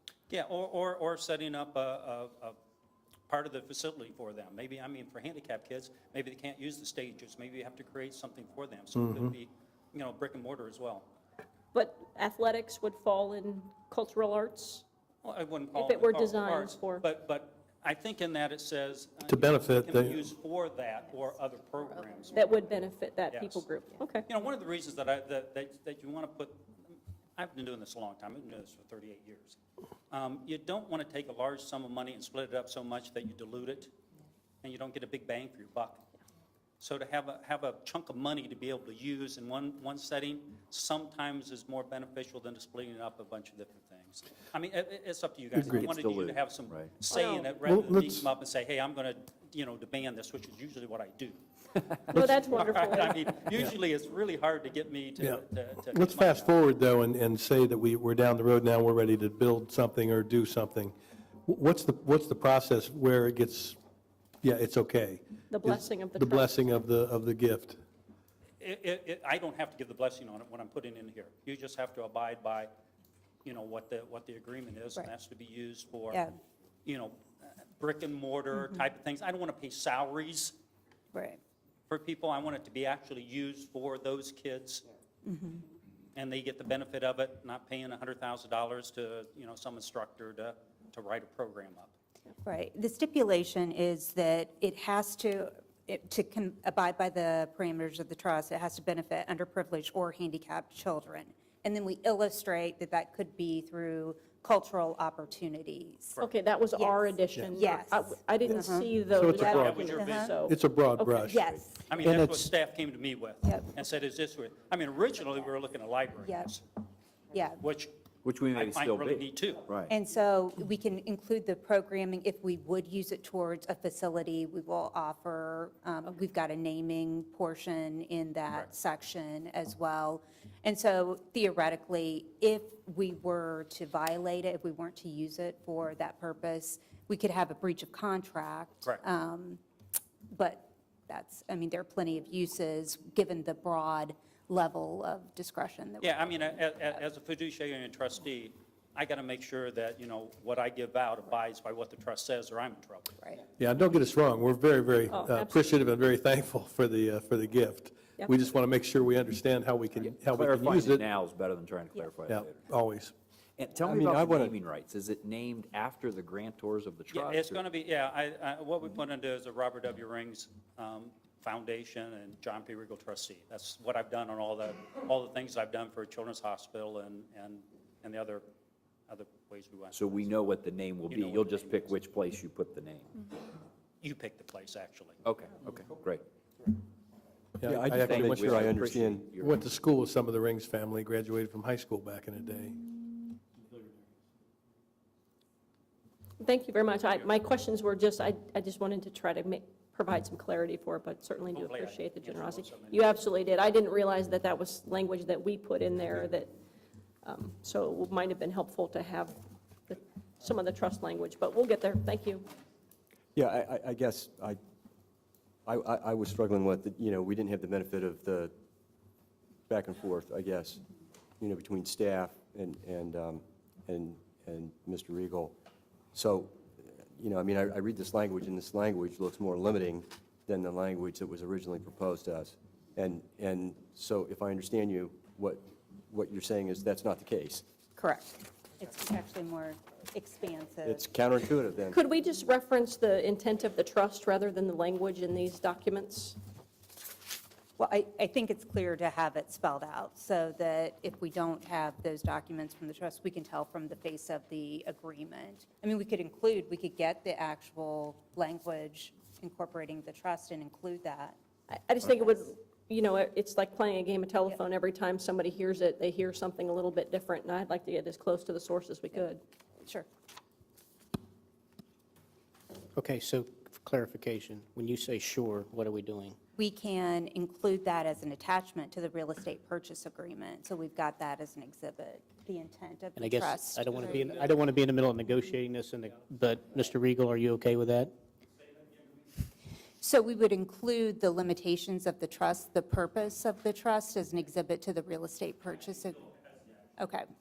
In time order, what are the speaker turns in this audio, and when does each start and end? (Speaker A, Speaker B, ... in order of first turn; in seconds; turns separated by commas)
Speaker A: 0.3-2.6, Speaker A: 3.3-11.1, Speaker B: 9.0-9.3, Speaker C: 11.7-14.8, Speaker A: 15.2-22.4, Speaker C: 15.7-17.0, Speaker B: 19.3-20.2, Speaker C: 22.3-24.2, Speaker A: 23.3-23.6, Speaker A: 24.3-29.6, Speaker A: 30.1-33.9, Speaker A: 34.6-36.0, Speaker A: 36.8-51.4, Speaker B: 45.5-45.9, Speaker D: 45.6-47.0, Speaker C: 47.0-47.5, Speaker B: 47.6-48.3, Speaker C: 52.1-53.2, Speaker A: 52.5-56.5, Speaker B: 55.2-60.9, Speaker B: 61.4-63.8, Speaker B: 64.4-67.8, Speaker C: 65.5-66.5, Speaker A: 68.6-72.7, Speaker A: 73.4-76.2, Speaker E: 76.1-76.3, Speaker A: 76.8-80.5, Speaker E: 81.1-81.4, Speaker A: 81.9-84.8, Speaker E: 85.2-85.6, Speaker A: 86.1-91.9, Speaker E: 92.4-106.2, Speaker C: 106.2-111.3, Speaker E: 106.7-108.9, Speaker B: 109.1-111.4, Speaker A: 109.3-110.3, Speaker E: 109.6-110.3, Speaker E: 111.3-111.8, Speaker A: 111.9-116.6, Speaker B: 112.0-112.4, Speaker E: 113.4-113.7, Speaker E: 116.2-116.5, Speaker E: 117.3-117.6, Speaker A: 117.6-117.9, Speaker D: 118.2-119.9, Speaker A: 118.5-119.6, Speaker E: 119.9-139.6, Speaker E: 140.3-146.3, Speaker A: 146.0-153.2, Speaker B: 153.6-161.0, Speaker C: 155.1-155.8, Speaker D: 160.1-162.7, Speaker B: 162.3-163.1, Speaker D: 163.6-167.6, Speaker B: 163.8-164.5, Speaker A: 167.1-178.4, Speaker A: 179.1-180.4, Speaker D: 179.9-183.1, Speaker A: 181.1-181.9, Speaker A: 184.0-185.2, Speaker D: 185.2-186.2, Speaker B: 187.6-188.5, Speaker F: 187.6-189.3, Speaker D: 187.8-189.6, Speaker B: 189.4-192.8, Speaker C: 196.4-206.5, Speaker A: 201.5-203.1, Speaker C: 207.2-212.5, Speaker F: 213.3-214.6, Speaker F: 215.7-218.5, Speaker F: 219.7-220.8, Speaker F: 221.4-225.6, Speaker F: 226.1-237.6, Speaker E: 238.8-241.1, Speaker F: 240.8-242.0, Speaker C: 241.9-246.4, Speaker E: 247.8-261.4, Speaker C: 261.7-269.4, Speaker G: 273.1-273.5, Speaker G: 274.0-276.3, Speaker E: 276.6-284.4, Speaker G: 284.5-288.1, Speaker E: 290.0-296.3, Speaker E: 297.0-297.3